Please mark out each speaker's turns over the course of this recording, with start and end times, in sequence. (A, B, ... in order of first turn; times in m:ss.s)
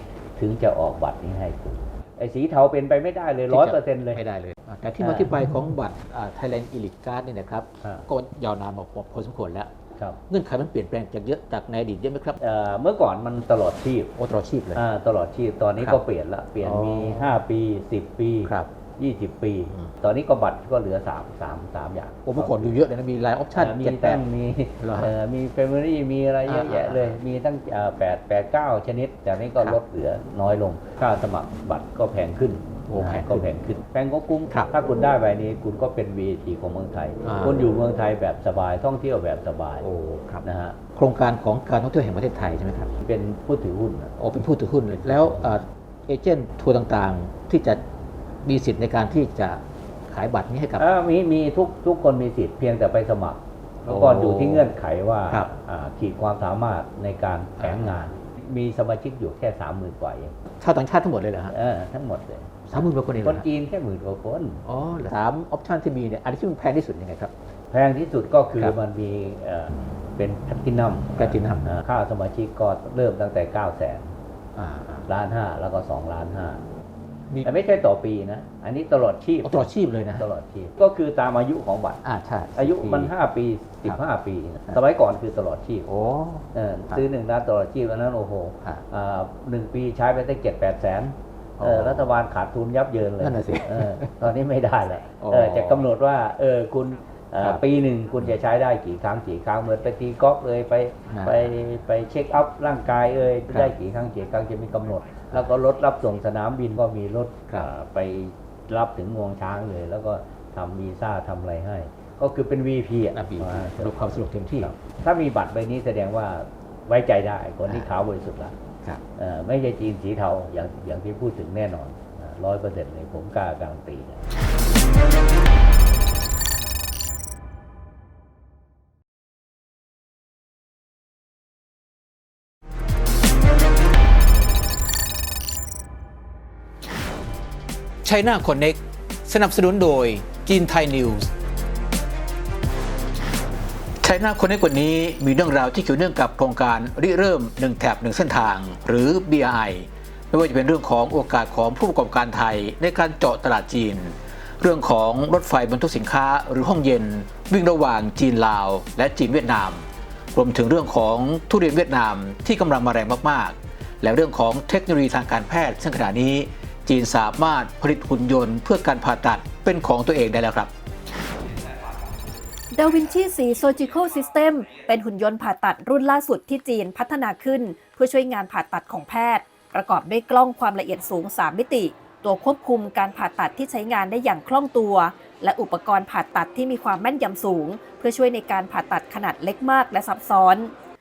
0:00.4-0:04.2 A
0:03.5-0:09.7 B
0:05.0-0:05.4 A
0:10.3-0:12.4 B
0:12.4-0:14.1 A
0:14.2-0:14.8 B
0:14.7-0:22.8 A
0:16.6-0:17.3 B
0:18.4-0:18.7 B
0:22.2-0:24.2 B
0:23.5-0:39.8 A
0:24.8-0:25.1 B
0:26.4-0:27.2 B
0:32.9-0:33.5 B
0:37.2-0:37.7 B
0:39.8-0:42.9 B
0:40.4-0:40.8 A
0:43.0-0:44.2 A
0:44.2-0:47.8 B
0:44.9-0:45.5 A
0:48.4-0:50.8 B
0:50.8-1:00.4 A
0:53.9-0:54.7 B
0:57.6-0:58.0 B
1:00.6-1:01.5 B
1:01.5-1:04.6 A
1:02.7-1:03.5 B
1:04.6-1:07.3 B
1:07.7-1:14.1 A
1:11.2-1:11.7 B
1:14.6-1:15.1 B
1:15.1-1:16.6 A
1:17.4-1:22.0 A
1:19.4-1:20.3 B
1:22.0-1:23.1 B
1:22.5-1:25.9 A
1:25.8-1:27.0 B
1:26.5-1:58.6 A
1:31.6-1:32.1 B
1:33.2-1:34.2 B
1:35.2-1:35.9 B
1:41.1-1:41.5 B
1:43.5-1:43.7 B
1:53.1-1:54.8 B
1:59.2-2:04.3 A
2:18.0-2:21.3 B
2:24.0-2:50.7 B
2:52.7-3:10.7 C